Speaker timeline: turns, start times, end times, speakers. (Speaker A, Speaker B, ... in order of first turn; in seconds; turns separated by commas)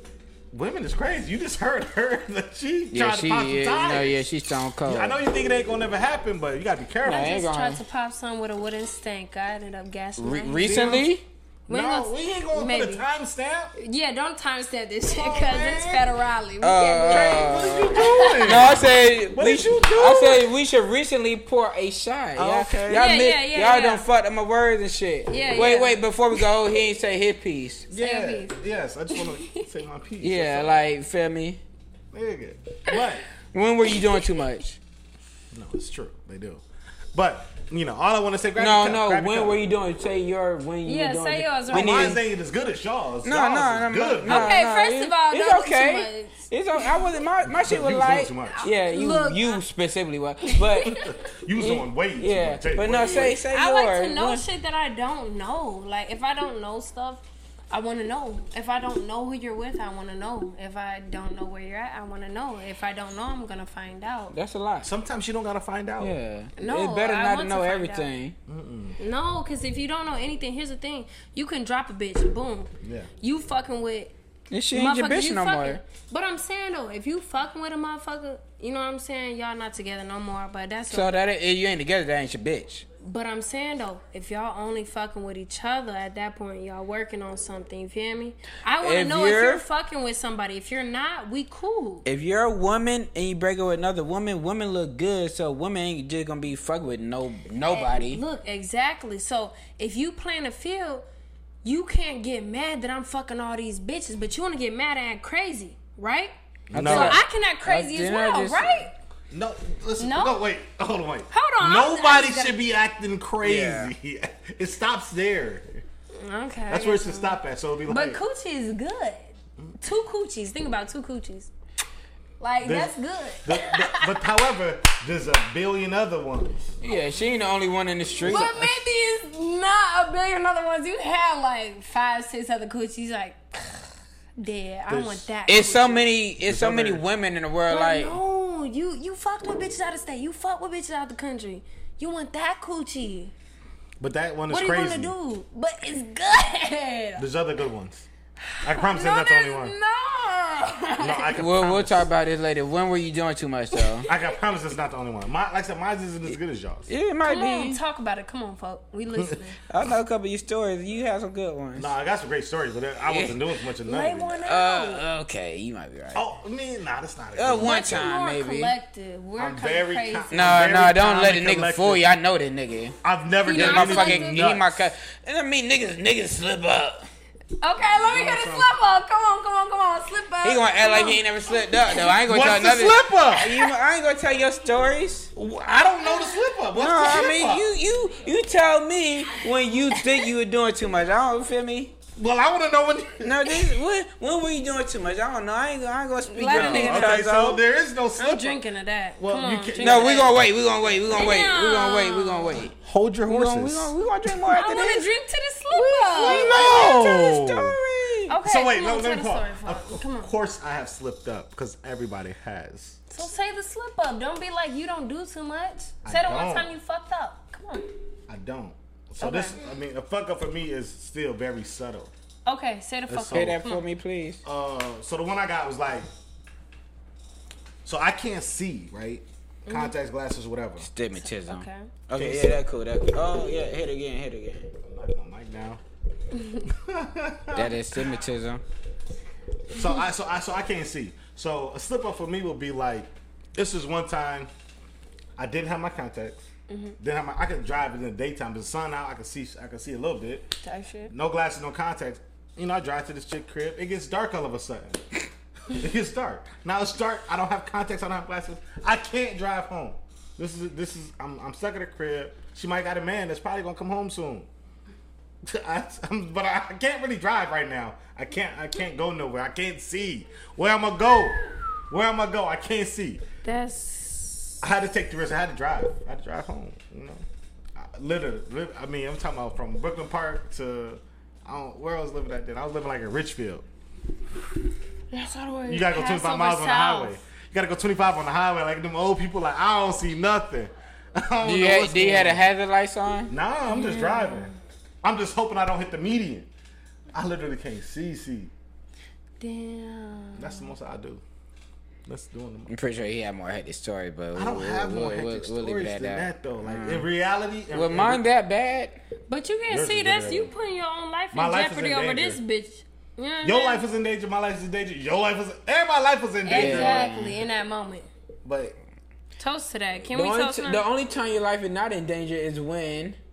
Speaker A: 0.5-4.2, Speaker B: 2.9-5.2, Speaker A: 4.8-7.4, Speaker B: 7.0-7.8, Speaker C: 7.0-11.0, Speaker B: 10.2-11.2, Speaker A: 10.6-11.2, Speaker C: 11.7-13.1, Speaker A: 11.7-13.7, Speaker C: 13.8-18.8, Speaker A: 15.1-16.0, Speaker B: 16.6-27.9, Speaker A: 17.0-20.5, Speaker A: 22.4-23.2, Speaker C: 22.9-24.1, Speaker C: 25.3-26.0, Speaker A: 27.9-30.8, Speaker C: 27.9-28.6, Speaker C: 29.1-29.6, Speaker B: 30.2-31.6, Speaker A: 32.1-33.2, Speaker B: 33.5-34.8, Speaker A: 35.5-36.6, Speaker A: 37.1-39.6, Speaker B: 38.6-42.2, Speaker C: 40.8-42.2, Speaker A: 41.7-44.6, Speaker B: 43.2-51.0, Speaker C: 44.2-46.9, Speaker A: 47.4-48.6, Speaker C: 48.5-49.6, Speaker C: 50.5-51.1, Speaker A: 50.9-53.4, Speaker B: 51.6-54.4, Speaker C: 53.2-64.3, Speaker B: 64.3-64.9, Speaker A: 64.8-66.2, Speaker B: 66.0-68.4, Speaker C: 66.6-68.1, Speaker A: 68.5-69.0, Speaker C: 69.0-74.1, Speaker A: 72.8-73.1, Speaker B: 74.5-75.8, Speaker C: 74.7-81.2, Speaker B: 80.9-82.8, Speaker C: 83.0-92.1, Speaker B: 88.8-89.6, Speaker B: 92.1-98.2, Speaker C: 97.7-101.0, Speaker C: 101.6-108.9, Speaker A: 106.7-107.2, Speaker B: 106.7-108.9, Speaker A: 109.3-115.8, Speaker C: 110.0-110.4, Speaker C: 111.3-112.6, Speaker B: 113.4-113.9, Speaker C: 116.2-121.5, Speaker A: 116.7-118.2, Speaker C: 122.4-124.2, Speaker A: 122.6-126.8, Speaker B: 126.8-128.6, Speaker A: 128.2-128.7, Speaker C: 128.2-136.1, Speaker A: 134.9-135.3, Speaker B: 135.5-138.2, Speaker A: 136.5-137.0, Speaker C: 137.7-143.3, Speaker A: 144.0-145.1, Speaker C: 144.5-147.2, Speaker A: 147.2-148.1, Speaker C: 148.4-151.4, Speaker A: 148.6-149.7, Speaker A: 151.0-152.1, Speaker B: 151.3-154.1, Speaker C: 153.7-154.2, Speaker A: 154.1-156.9, Speaker B: 156.9-157.8, Speaker C: 157.2-159.6, Speaker B: 159.7-161.9, Speaker A: 161.8-164.4, Speaker B: 163.1-163.4, Speaker C: 163.9-165.0, Speaker B: 164.4-166.2, Speaker A: 166.1-168.0, Speaker B: 167.4-168.7, Speaker C: 167.6-170.5, Speaker A: 169.4-172.1, Speaker B: 170.3-173.0, Speaker A: 173.0-174.8, Speaker C: 173.4-174.5, Speaker B: 173.5-177.1, Speaker C: 177.6-181.2, Speaker A: 177.8-178.7, Speaker B: 180.4-185.3, Speaker C: 181.8-182.1, Speaker A: 182.2-183.7, Speaker A: 185.4-187.7, Speaker C: 186.0-186.4, Speaker B: 186.7-191.9, Speaker A: 192.2-193.7, Speaker B: 193.2-197.6, Speaker C: 196.3-197.3, Speaker A: 196.5-198.6, Speaker C: 198.2-200.5, Speaker A: 199.2-200.4, Speaker B: 199.8-202.7, Speaker C: 201.1-202.7, Speaker A: 202.7-203.9, Speaker B: 203.3-205.1, Speaker C: 204.5-206.6, Speaker B: 205.7-208.3, Speaker A: 206.2-207.8, Speaker C: 208.3-210.3, Speaker A: 208.4-213.1, Speaker C: 213.1-217.9, Speaker A: 216.0-216.7, Speaker A: 218.3-222.1, Speaker C: 219.2-219.7, Speaker C: 222.5-223.8, Speaker A: 223.1-223.6, Speaker B: 223.3-224.4, Speaker A: 224.4-226.1, Speaker A: 227.8-230.9, Speaker C: 229.7-229.9, Speaker B: 230.8-234.7, Speaker C: 231.2-231.9, Speaker A: 232.1-232.6, Speaker A: 234.8-235.8, Speaker C: 236.3-236.7, Speaker A: 236.7-237.8, Speaker B: 237.5-238.6, Speaker A: 239.7-244.5, Speaker C: 239.8-240.0, Speaker A: 245.4-246.5, Speaker A: 247.0-250.5, Speaker C: 250.6-251.1, Speaker A: 251.1-255.2, Speaker A: 255.7-264.5, Speaker A: 265.4-271.4, Speaker A: 271.9-273.2, Speaker C: 273.4-274.6, Speaker A: 274.6-277.2, Speaker A: 277.8-283.6, Speaker C: 285.1-287.2, Speaker A: 285.7-292.4, Speaker B: 291.4-293.3, Speaker A: 293.3-294.5, Speaker C: 293.7-294.6, Speaker A: 295.0-296.5, Speaker A: 297.1-298.5, Speaker C: 299.4-300.7, Speaker A: 300.4-301.2, Speaker A: 302.1-302.7, Speaker B: 302.7-307.1, Speaker A: 304.4-308.2, Speaker B: 307.7-309.0, Speaker C: 309.3-313.8, Speaker A: 309.7-310.5, Speaker A: 311.3-312.4, Speaker A: 313.4-317.1, Speaker C: 316.4-318.1, Speaker B: 316.5-317.4, Speaker A: 318.4-318.8, Speaker C: 319.4-320.9, Speaker B: 320.1-323.2